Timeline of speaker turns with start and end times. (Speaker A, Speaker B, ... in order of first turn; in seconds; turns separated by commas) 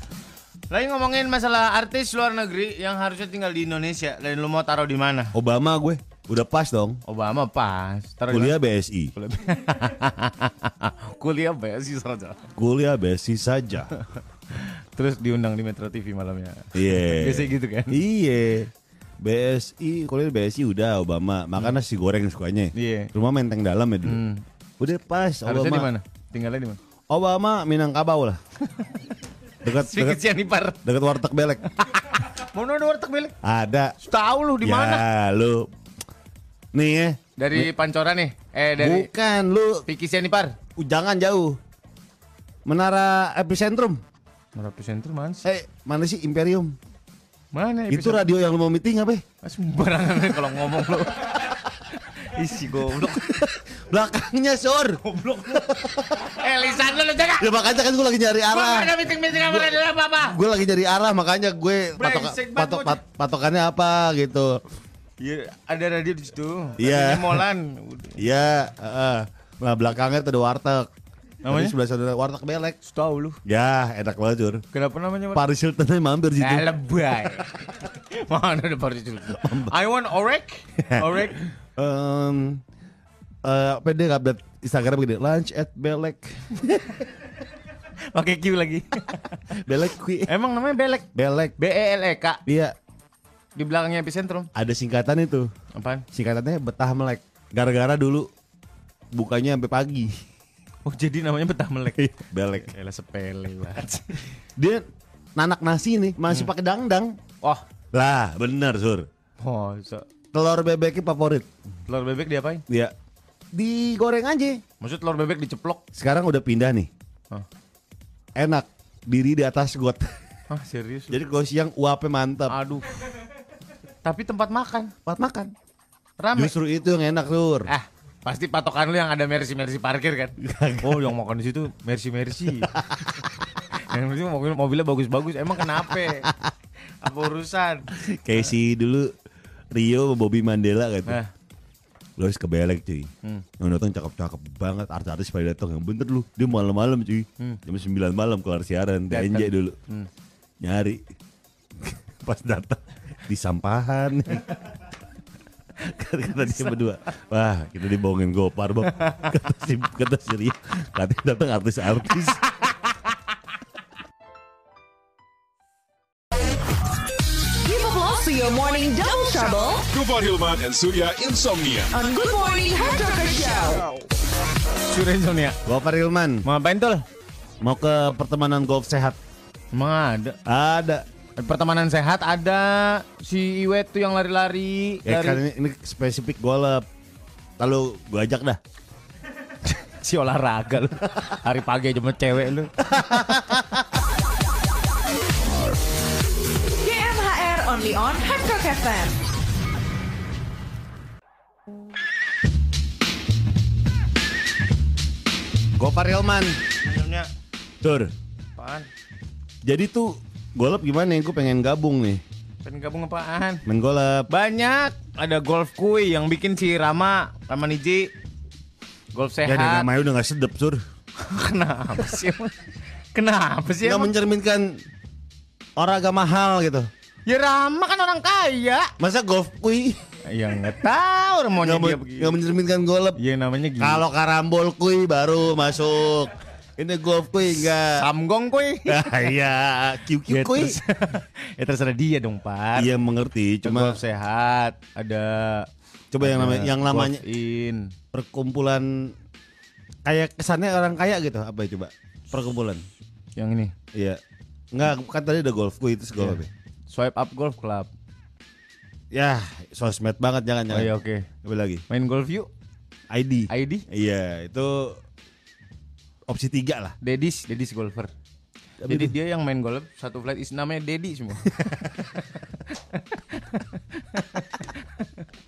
Speaker A: 0.7-5.3, Speaker B: 5.3-7.0, Speaker A: 7.0-8.6, Speaker B: 8.3-9.1, Speaker A: 9.1-12.5, Speaker B: 12.6-13.9, Speaker A: 14.5-18.0, Speaker B: 16.7-24.2, Speaker A: 22.7-23.1, Speaker A: 24.0-24.4, Speaker B: 24.8-25.9, Speaker A: 25.4-26.8, Speaker B: 27.1-28.4, Speaker B: 29.6-30.2, Speaker A: 29.6-30.8, Speaker B: 30.8-31.9, Speaker A: 32.2-33.3, Speaker B: 33.4-33.9, Speaker A: 34.0-35.0, Speaker B: 34.6-35.7, Speaker B: 36.7-37.7, Speaker A: 37.4-39.1, Speaker B: 38.8-39.8, Speaker A: 39.9-40.6, Speaker B: 40.8-41.6, Speaker B: 42.6-44.0, Speaker A: 44.5-45.5, Speaker B: 45.4-46.8, Speaker A: 47.5-48.2, Speaker B: 47.9-49.2, Speaker A: 49.4-53.5, Speaker B: 53.1-56.3, Speaker A: 55.0-57.6, Speaker B: 57.4-64.6, Speaker A: 58.5-60.4, Speaker A: 62.0-63.0, Speaker A: 65.2-68.2, Speaker B: 66.8-67.5, Speaker B: 68.2-70.9, Speaker A: 71.4-71.7, Speaker B: 71.5-72.8, Speaker A: 72.8-73.4, Speaker B: 73.4-74.6, Speaker A: 74.7-75.5, Speaker B: 75.3-76.7, Speaker A: 76.4-81.5, Speaker B: 79.4-79.7, Speaker B: 80.9-82.6, Speaker B: 83.4-86.6, Speaker A: 86.7-87.0, Speaker A: 88.1-89.5, Speaker B: 89.5-90.3, Speaker A: 90.3-92.4, Speaker B: 91.1-91.5, Speaker B: 92.5-92.7, Speaker A: 93.5-94.5, Speaker B: 94.5-95.5, Speaker A: 95.7-96.0, Speaker B: 96.1-98.3, Speaker B: 99.1-100.1, Speaker A: 100.8-104.3, Speaker B: 102.0-102.7, Speaker B: 104.6-104.8, Speaker B: 105.3-107.2, Speaker B: 107.9-109.1, Speaker A: 109.4-110.1, Speaker B: 110.3-111.5, Speaker A: 111.9-112.6, Speaker B: 112.7-112.9, Speaker B: 113.5-114.6, Speaker A: 114.8-115.8, Speaker B: 115.9-116.9, Speaker B: 118.3-120.1, Speaker A: 120.5-121.2, Speaker B: 121.1-122.5, Speaker A: 122.5-122.9, Speaker A: 124.0-124.9, Speaker B: 125.0-125.5, Speaker A: 126.2-126.5, Speaker B: 126.3-127.7, Speaker A: 127.7-132.7, Speaker B: 130.4-131.1, Speaker B: 132.7-133.0, Speaker A: 133.8-136.3, Speaker A: 137.0-138.4, Speaker B: 137.9-139.1, Speaker B: 139.7-141.2, Speaker A: 141.1-141.3, Speaker B: 142.2-149.8, Speaker A: 149.1-150.1, Speaker B: 150.6-151.0, Speaker B: 151.8-154.6, Speaker B: 155.8-162.4, Speaker A: 159.0-159.3, Speaker C: 167.6-169.8, Speaker D: 169.9-171.9, Speaker C: 171.9-173.9, Speaker A: 174.8-175.6, Speaker B: 175.6-176.4, Speaker A: 176.4-177.0, Speaker B: 177.6-179.2, Speaker A: 179.7-180.4, Speaker B: 180.4-181.0, Speaker A: 181.4-185.4, Speaker B: 185.0-186.8, Speaker B: 187.6-188.6, Speaker A: 189.6-193.1, Speaker B: 192.9-193.8, Speaker C: 196.8-199.2, Speaker B: 205.8-206.6, Speaker A: 206.8-207.3, Speaker B: 207.8-208.1, Speaker A: 208.6-208.9, Speaker B: 209.6-212.2, Speaker A: 212.6-213.6, Speaker B: 213.7-214.3, Speaker A: 214.3-218.1, Speaker A: 219.1-219.9, Speaker B: 219.4-220.8, Speaker A: 221.2-222.6, Speaker A: 223.1-224.1, Speaker B: 223.8-224.8, Speaker B: 225.8-226.9, Speaker A: 227.3-228.9, Speaker B: 229.0-230.0, Speaker A: 230.3-232.4, Speaker B: 231.6-233.2, Speaker A: 233.2-234.0, Speaker B: 233.8-238.0, Speaker A: 238.0-239.2, Speaker B: 238.8-240.8, Speaker A: 240.3-242.9, Speaker B: 242.8-244.0, Speaker A: 243.6-245.7, Speaker B: 246.1-247.2, Speaker A: 246.2-247.9, Speaker B: 248.1-249.1, Speaker B: 250.0-252.8, Speaker A: 253.3-253.7, Speaker B: 253.9-254.2, Speaker B: 254.7-256.5, Speaker A: 256.9-257.9, Speaker B: 259.1-260.9, Speaker A: 260.7-261.3, Speaker B: 261.4-261.8, Speaker A: 261.9-262.5, Speaker B: 263.1-265.0, Speaker A: 263.5-263.8, Speaker B: 266.3-266.9, Speaker A: 267.0-268.1, Speaker B: 268.8-269.1, Speaker A: 268.9-275.1